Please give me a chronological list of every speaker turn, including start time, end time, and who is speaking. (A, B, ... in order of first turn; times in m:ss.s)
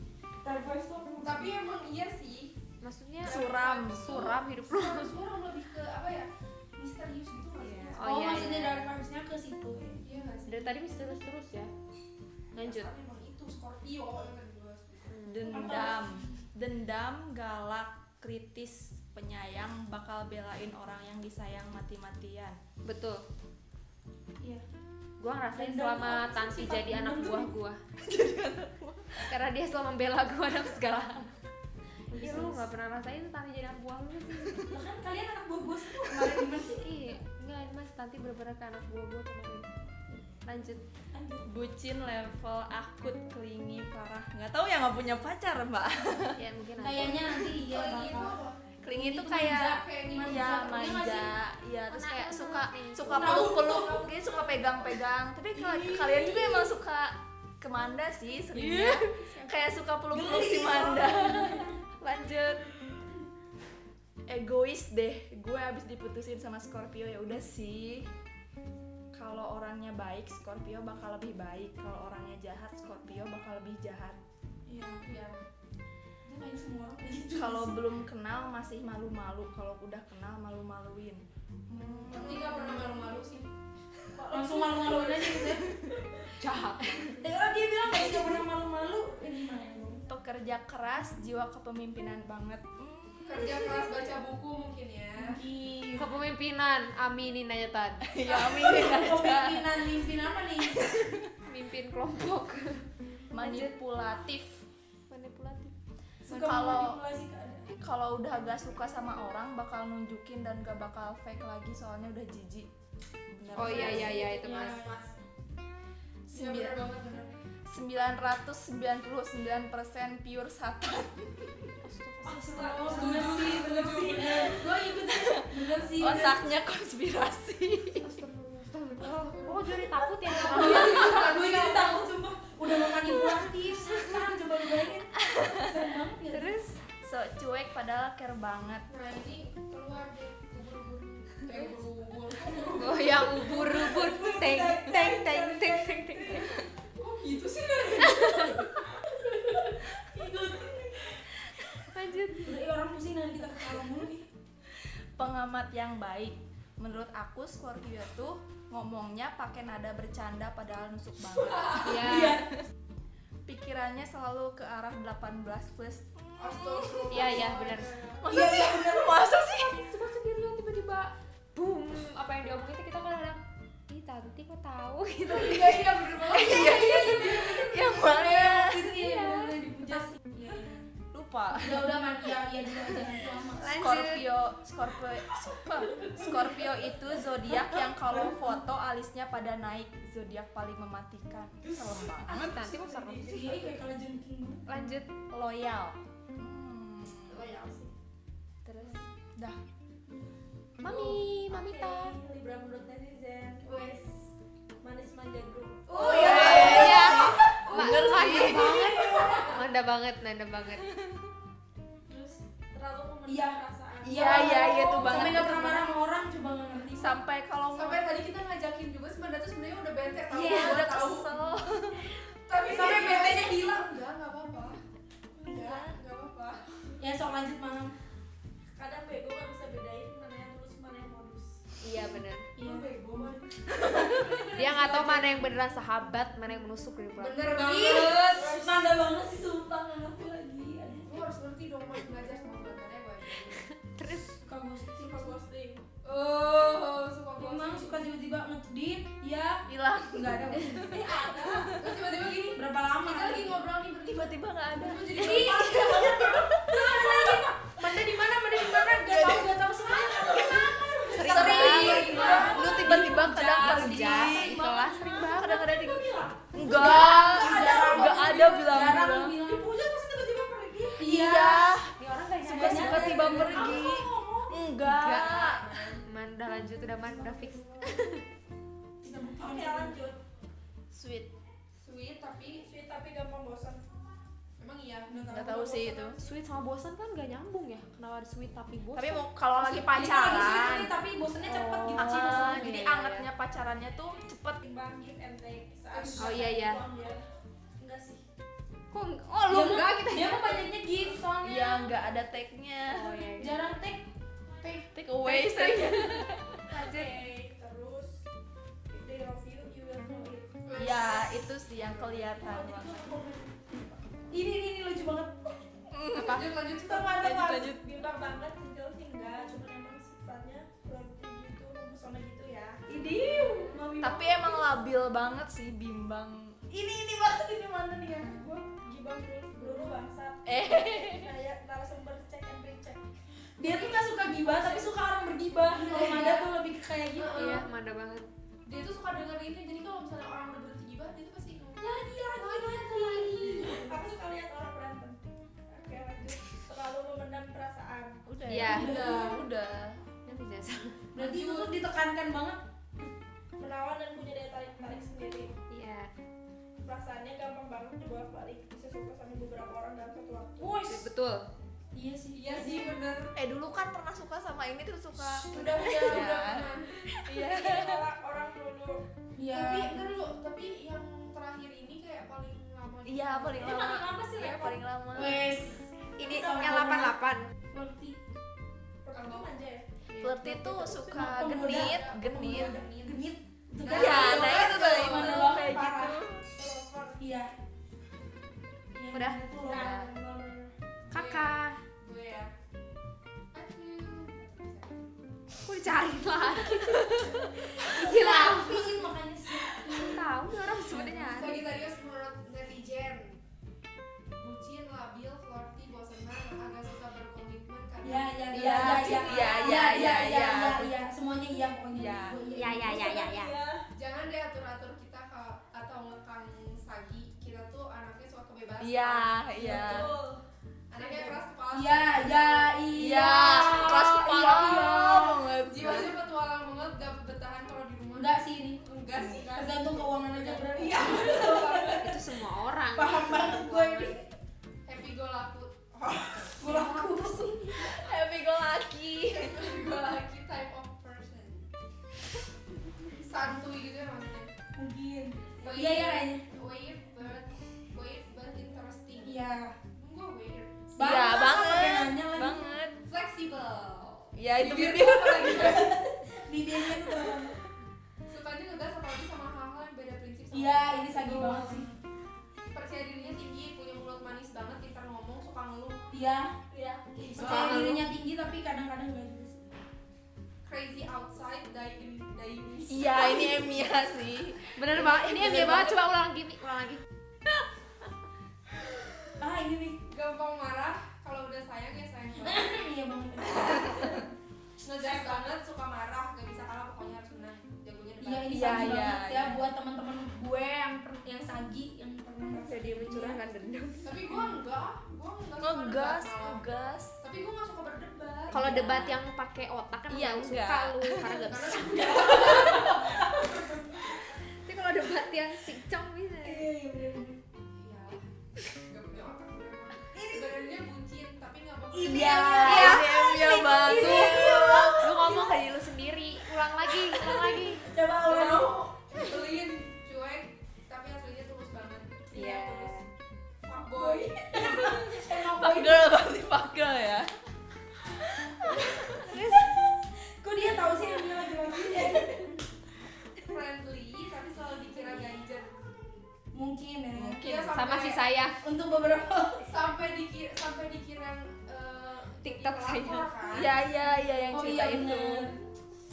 0:00.4-0:01.2 A
0:01.2-0:02.5 B
0:02.8-0:05.1 C
0:03.2-0:04.3 D
0:03.2-0:08.1 B
0:07.6-0:08.0 D
0:08.0-0:08.9 C
0:08.0-0:10.0 A
0:10.0-0:10.8 B
0:10.5-0:11.7 C
0:12.5-0:12.9 C
0:12.5-0:15.2 B
0:15.1-0:15.5 C
0:15.2-0:22.6 D
0:15.5-0:16.3 A
0:22.8-0:23.2 C
0:25.2-0:27.8 C
0:25.5-0:27.5 A
0:28.0-0:29.3 D
0:29.3-0:31.3 C
0:32.1-0:32.7 A
0:32.1-0:34.8 C
0:34.7-0:36.9 A
0:36.7-0:39.7 C
0:40.4-0:40.8 C
0:41.1-0:41.5 A
0:41.4-0:46.4 D
0:46.4-0:47.3 C
0:46.8-0:48.4 A
0:47.5-0:48.6 B
0:48.8-1:01.7 D
0:48.9-0:51.3 A
0:49.6-0:51.0 B
0:51.9-0:53.5 C
0:53.1-0:54.1 A
0:55.6-0:56.7 A
0:58.5-0:59.4 C
1:00.1-1:01.7 A
1:02.0-1:02.7 C
1:04.3-1:08.1 D
1:09.1-1:14.2 D
1:14.7-1:15.0 A
1:15.0-1:15.4 B
1:16.2-1:17.8 A
1:17.3-1:22.8 D
1:22.1-1:23.5 B
1:22.1-1:22.8 A
1:24.2-1:25.4 B
1:24.3-1:25.8 A
1:24.5-1:24.8 E
1:25.4-1:25.9 D
1:26.4-1:27.2 C
1:27.2-1:30.0 A
1:30.1-1:33.9 D
1:33.2-1:35.4 B
1:35.2-1:36.1 A
1:36.0-1:38.1 C
1:38.0-1:40.0 D
1:38.2-1:40.8 A
1:40.7-1:41.3 D
1:41.4-1:42.8 C
1:43.3-1:44.6 D
1:43.4-1:43.7 C
1:45.1-1:45.7 C
1:46.2-1:47.7 A
1:46.3-1:47.0 D
1:47.8-1:52.7 D
1:53.3-1:54.2 D
1:53.5-1:54.9 C
1:53.6-1:54.9 B
1:53.6-1:55.1 A
1:56.3-1:56.9 D
1:56.3-1:57.3 B
1:57.6-2:01.7 D
2:01.8-2:03.4 C
2:02.2-2:06.4 A
2:02.6-2:04.7 B
2:05.0-2:08.2 D
2:08.0-2:11.2 C
2:09.1-2:12.1 B
2:10.3-2:16.6 A
2:15.2-2:15.8 D
2:16.3-2:16.8 C
2:17.0-2:18.8 D
2:18.9-2:23.4 B
2:22.7-2:26.6 C
2:23.3-2:26.5 A
2:26.9-2:28.8 B
2:28.0-2:28.7 C
2:30.1-2:30.9 A
2:31.7-2:32.6 C
2:32.4-2:34.3 A
2:35.2-2:42.5 D
2:41.8-2:42.4 C
2:42.0-2:42.5 A
2:43.4-2:47.5 D
2:46.4-2:48.2 B
2:47.1-2:47.9 C
2:48.2-2:49.8 D
2:48.2-2:49.2 A
2:49.6-2:57.2 C
2:55.2-2:57.7 B
2:56.1-2:59.0 D
2:56.5-3:00.9 A
2:59.0-2:59.6 C
3:01.1-3:02.0 D
3:01.6-3:03.9 A
3:03.6-3:04.3 C
3:03.8-3:12.5 D
3:05.8-3:06.7 E
3:08.1-3:08.4 A
3:11.8-3:13.7 E
3:12.2-3:13.7 C
3:13.2-3:14.6 A
3:14.7-3:15.1 C
3:15.3-3:17.4 D
3:17.3-3:17.9 E
3:18.6-3:19.0 C
3:20.8-3:22.2 C
3:20.8-3:24.2 E
3:24.8-3:27.7 E
3:26.0-3:29.2 D
3:26.0-3:30.9 C
3:26.0-3:27.2 A
3:26.0-3:26.8 B
3:27.8-3:29.5 A
3:28.4-3:29.6 E
3:29.1-3:29.4 B
3:32.1-3:34.6 E
3:33.3-3:37.2 A
3:34.0-3:35.9 D
3:36.9-3:38.1 D
3:37.7-3:41.3 B
3:40.3-3:40.7 A
3:40.4-3:42.2 D
3:42.5-3:44.8 B
3:42.5-3:43.7 A
3:45.4-3:45.9 A
3:45.4-3:46.6 B
3:47.0-3:47.9 A
3:48.7-3:51.6 E
3:51.8-3:52.5 C
3:52.6-3:52.9 A
3:52.6-3:55.2 B
3:53.8-3:55.2 A
3:54.5-3:57.5 C
3:57.2-3:58.6 B
3:57.5-4:01.1 A
3:58.3-3:58.9 E
4:01.0-4:03.6 B
4:03.4-4:04.4 C
4:04.4-4:05.4 A
4:05.0-4:05.8 E
4:06.0-4:08.0 B
4:07.4-4:11.1 A
4:09.7-4:12.0 D
4:11.1-4:11.7 E
4:11.1-4:16.4 B
4:12.5-4:13.6 A
4:14.0-4:17.4 D
4:15.1-4:25.6 A
4:16.9-4:17.2 B
4:18.6-4:19.6 D
4:20.1-4:21.5 E
4:21.1-4:24.7 D
4:21.1-4:25.7 C
4:21.2-4:22.9 B
4:22.0-4:22.7 E
4:24.8-4:26.5 E
4:25.3-4:29.4 D
4:26.5-4:29.7 A
4:27.2-4:28.6 E
4:29.4-4:31.0 E
4:30.9-4:31.8 A
4:31.0-4:35.6 D
4:32.0-4:33.7 C
4:32.4-4:34.1 A
4:33.3-4:34.6 E
4:34.8-4:38.2 C
4:35.1-4:36.0 B
4:37.4-4:37.8 E
4:39.0-4:40.0 A
4:39.4-4:40.2 E
4:40.9-4:41.3 D
4:41.8-4:42.6 B
4:42.6-4:43.8 E
4:44.6-4:45.2 B
4:45.1-4:45.8 A
4:45.3-4:46.2 D
4:45.4-4:46.2 E
4:46.2-4:49.2 C
4:48.9-4:50.9 D
4:49.6-4:52.8 A
4:51.4-4:53.3 C
4:51.9-4:54.6 D
4:54.6-4:57.2 E
4:55.9-4:56.7 A
4:56.0-4:56.3 B
4:56.2-4:56.8 C
4:57.8-4:58.2 E
4:58.9-5:00.7 C
4:59.5-5:02.0 A
5:01.4-5:03.2 D
5:02.9-5:03.6 C
5:03.4-5:04.1 A
5:04.9-5:06.6 D
5:05.2-5:07.2 C
5:06.7-5:08.2 E
5:08.9-5:10.6 E
5:10.6-5:12.3 B
5:10.8-5:13.1 D
5:12.4-5:13.8 E
5:14.3-5:15.6 A
5:15.9-5:16.6 D
5:16.1-5:17.3 B
5:16.8-5:17.6 A
5:17.2-5:17.8 D
5:17.2-5:24.6 E
5:22.9-5:24.3 A
5:24.0-5:26.6 D
5:26.7-5:33.0 E
5:30.4-5:31.3 D
5:33.6-5:37.6 A
5:33.6-5:34.9 B
5:35.7-5:36.6 B
5:37.1-5:37.6 B
5:37.3-5:38.2 C
5:38.6-5:41.9 B
5:41.8-5:48.2 E
5:42.4-5:43.8 C
5:48.2-5:50.0 D
5:48.5-5:49.1 C
5:48.5-5:49.4 A
5:50.2-5:51.0 C
5:51.1-5:52.6 A
5:51.2-5:51.8 B
5:53.6-5:55.5 E
5:55.7-5:56.1 C
5:56.8-6:00.8 E
6:00.6-6:01.1 A
6:00.8-6:01.5 C
6:01.9-6:03.0 A
6:02.3-6:03.3 B
6:03.3-6:08.0 D
6:05.3-6:07.0 B
6:05.6-6:06.0 A
6:07.4-6:09.0 E
6:09.4-6:10.0 A
6:09.5-6:13.9 B
6:13.0-6:15.4 D
6:13.6-6:14.8 E
6:15.1-6:17.2 A
6:16.2-6:17.5 C
6:17.7-6:18.2 A
6:19.0-6:19.8 E
6:19.1-6:19.5 B
6:20.1-6:20.5 C
6:20.2-6:22.8 D
6:20.9-6:26.2 A
6:21.3-6:23.2 B
6:23.8-6:25.5 B
6:23.9-6:26.5 D
6:26.6-6:27.2 E
6:27.2-6:27.5 A
6:28.9-6:30.1 A
6:29.1-6:30.1 C
6:29.6-6:30.7 E
6:31.1-6:32.5 B
6:31.1-6:31.8 C
6:33.5-6:35.2 B
6:35.6-6:38.9 C
6:37.7-6:40.2 A
6:39.8-6:41.6 C
6:40.9-6:41.4 D
6:41.3-6:43.4 B
6:44.4-6:50.4 B
6:48.0-6:53.2 A
6:48.5-6:51.0 D
6:51.9-6:52.4 D
6:52.5-6:53.6 C
6:52.8-6:53.8 E
6:53.9-6:59.4 B
6:58.8-7:00.1 D
6:59.6-7:00.4 E
7:00.9-7:04.8 B
7:00.9-7:01.4 E
7:01.7-7:05.4 A
7:02.9-7:06.2 D
7:05.6-7:12.1 B
7:08.2-7:08.8 A
7:09.5-7:12.2 A
7:12.0-7:14.2 C
7:12.9-7:14.2 A
7:14.8-7:16.6 B
7:16.5-7:17.9 A
7:16.7-7:17.5 C
7:16.7-7:19.7 D
7:19.3-7:21.7 B
7:23.1-7:24.5 B
7:24.7-7:26.4 A
7:25.6-7:31.0 B
7:29.2-7:29.7 A
7:31.0-7:32.6 A
7:31.0-7:33.0 D
7:33.0-7:36.0 B
7:34.4-7:36.0 D
7:35.5-7:37.6 A
7:38.3-7:41.9 B
7:40.5-7:42.0 A
7:42.7-7:46.1 B
7:46.1-7:46.5 A
7:46.7-7:48.1 B
7:47.2-7:49.7 A
7:50.6-7:53.7 B
7:52.9-7:56.0 D
7:54.8-7:57.0 C
7:59.4-8:00.0 A
8:00.0-8:02.9 B
8:02.4-8:04.2 A
8:04.8-8:09.1 B
8:08.2-8:13.4 A
8:08.5-8:09.7 D
8:12.5-8:14.3 D
8:14.0-8:16.6 B
8:15.6-8:17.2 D
8:17.2-8:18.6 B
8:18.5-8:19.2 D
8:18.5-8:22.9 C
8:20.1-8:21.8 D
8:21.2-8:23.8 B
8:22.2-8:23.7 A
8:24.5-8:26.7 C
8:26.4-8:27.4 A
8:27.7-8:33.0 B
8:30.1-8:30.7 A
8:31.9-8:35.4 A
8:32.0-8:35.6 D
8:32.6-8:37.9 C
8:37.8-8:38.8 A
8:38.2-8:42.6 B
8:42.3-8:43.1 C
8:42.4-8:42.9 A
8:43.6-8:45.2 B
8:43.9-8:46.1 A
8:45.4-8:47.3 D
8:48.0-8:49.7 D
8:49.2-8:49.7 C
8:49.2-8:49.6 A
8:50.1-8:52.6 A
8:53.4-8:56.2 B
8:56.5-8:57.4 A
8:57.1-8:57.8 D
8:57.4-8:58.2 B
8:57.7-8:58.6 C
8:58.6-8:59.7 A
8:59.6-9:03.8 B
9:02.4-9:03.3 C
9:03.5-9:05.5 D
9:04.5-9:05.6 A